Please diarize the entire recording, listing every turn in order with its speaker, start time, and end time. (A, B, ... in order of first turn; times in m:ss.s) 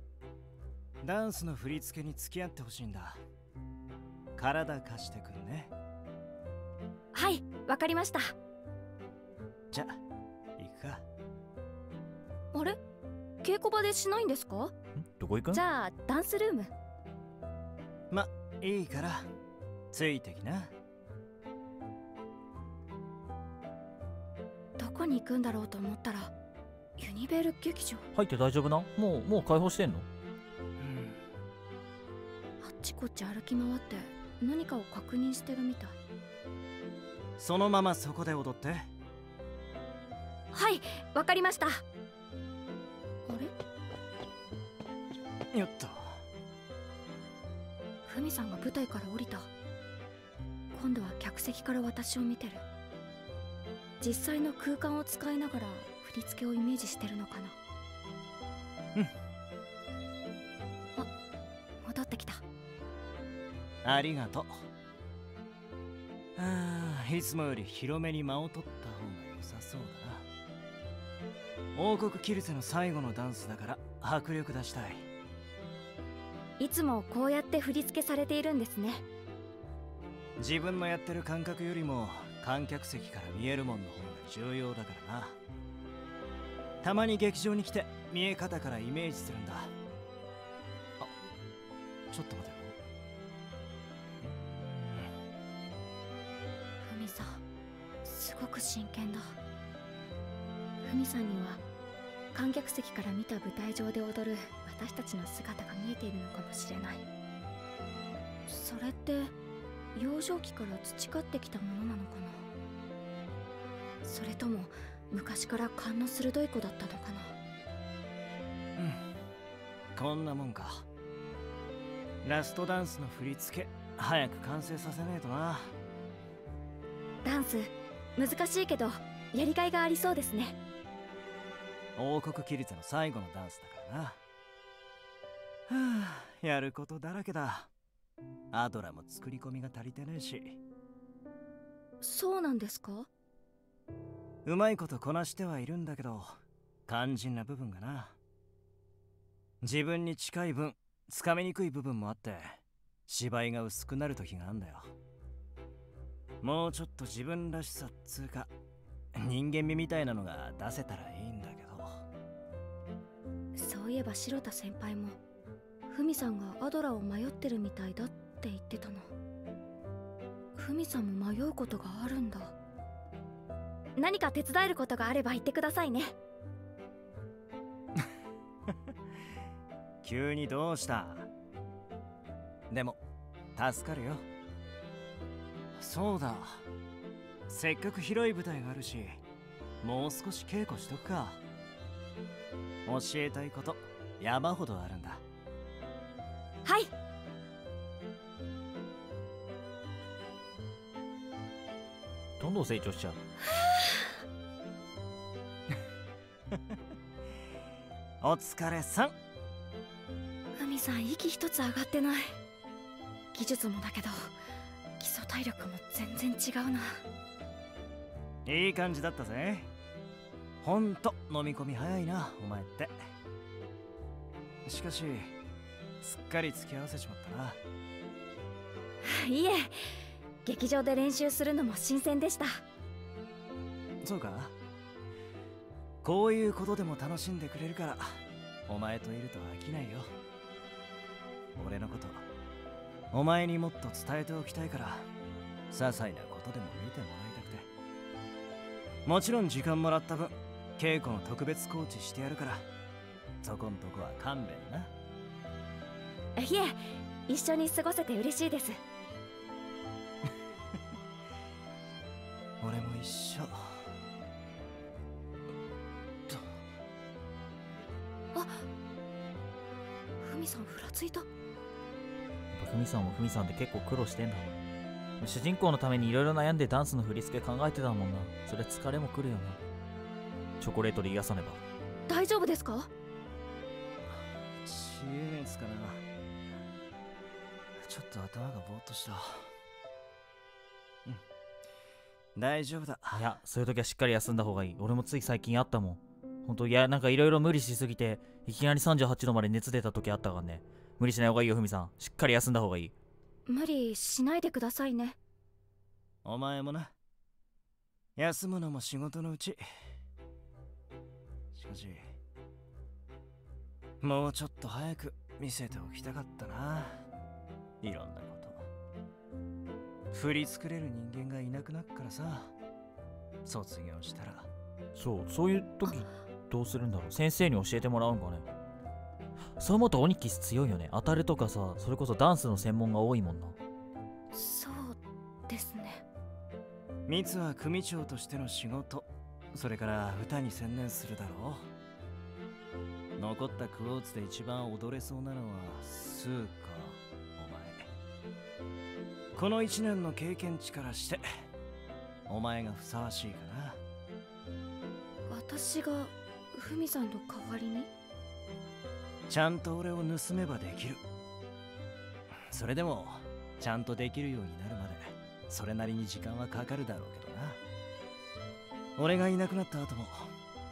0:01.0-0:03.2 A
0:04.4-0:05.7 A
0:07.1-0:08.4 B
0:09.7-0:10.0 A
0:10.6-0:11.0 A
0:12.5-0:12.8 B
0:13.4-0:14.7 B
0:15.0-0:15.6 C
0:15.5-0:16.7 B
0:18.1-0:19.3 A
0:19.9-0:20.7 A
0:24.8-0:26.3 B
0:27.0-0:28.1 B
0:28.1-0:30.1 C
0:30.8-0:31.2 A
0:32.6-0:36.0 B
0:37.4-0:38.9 A
0:40.5-0:41.8 B
0:43.3-0:43.5 B
0:45.5-0:46.2 A
0:48.1-0:49.5 B
0:50.7-0:52.6 B
0:54.0-0:57.6 B
1:01.8-1:02.4 B
1:03.8-1:04.6 A
1:06.4-1:10.3 A
1:11.8-1:15.1 A
1:16.6-1:19.0 B
1:20.4-1:25.4 A
1:26.8-1:29.7 A
1:32.1-1:32.8 A
1:34.2-1:35.1 A
1:36.8-1:37.4 B
1:38.0-1:39.3 B
1:40.8-1:41.6 B
1:42.3-1:47.0 B
1:48.5-1:49.3 B
1:50.0-1:52.4 B
1:54.0-1:57.4 B
1:58.8-1:59.0 A
2:00.0-2:00.9 A
2:02.2-2:05.7 A
2:07.2-2:10.6 B
2:12.0-2:14.2 A
2:15.7-2:17.7 A
2:18.5-2:20.6 A
2:22.0-2:23.1 B
2:24.4-2:28.2 A
2:29.6-2:34.9 A
2:36.4-2:38.5 A
2:39.2-2:42.0 A
2:43.6-2:45.2 B
2:45.9-2:49.1 B
2:50.6-2:52.5 B
2:54.0-2:56.2 B
3:00.0-3:01.3 A
3:02.7-3:03.0 A
3:03.6-3:04.2 A
3:05.8-3:06.6 A
3:07.5-3:09.2 A
3:09.8-3:11.4 A
3:12.9-3:15.2 A
3:16.6-3:16.9 B
3:22.4-3:23.2 C
3:28.2-3:29.1 A
3:30.6-3:32.4 B
3:33.3-3:34.4 B
3:35.0-3:37.0 B
3:38.5-3:39.7 A
3:40.6-3:43.0 A
3:44.7-3:45.3 A
3:46.0-3:47.6 A
3:49.0-3:52.6 B
3:54.0-3:54.5 A
3:56.0-4:00.1 A
4:01.6-4:02.2 A
4:03.1-4:05.1 A
4:05.7-4:07.7 A
4:09.1-4:12.7 A
4:13.4-4:14.9 A
4:16.4-4:18.8 B
4:22.6-4:23.9 A
4:28.3-4:28.6 B
4:30.2-4:31.3 B
4:32.5-4:34.6 C
4:35.2-4:39.6 C
4:40.6-4:41.6 C
4:42.1-4:42.9 B
4:44.1-4:46.0 A
4:47.8-4:49.5 A
4:52.4-4:53.3 A
4:53.1-5:02.9 C
5:03.5-5:05.2 B
5:06.2-5:06.9 A
5:08.2-5:09.6 A
5:11.5-5:12.1 A
5:14.0-5:17.0 A
5:17.8-5:18.6 A
5:20.1-5:22.5 A
5:23.4-5:24.5 A
5:25.0-5:28.5 C
5:29.6-5:33.6 C
5:34.3-5:36.0 B
5:37.1-5:41.7 A
5:43.2-5:47.9 A
5:49.4-5:51.2 A
5:52.3-5:53.8 A
5:55.3-5:57.9 B
5:59.3-6:01.0 A
6:02.5-6:07.6 A
6:09.0-6:10.3 A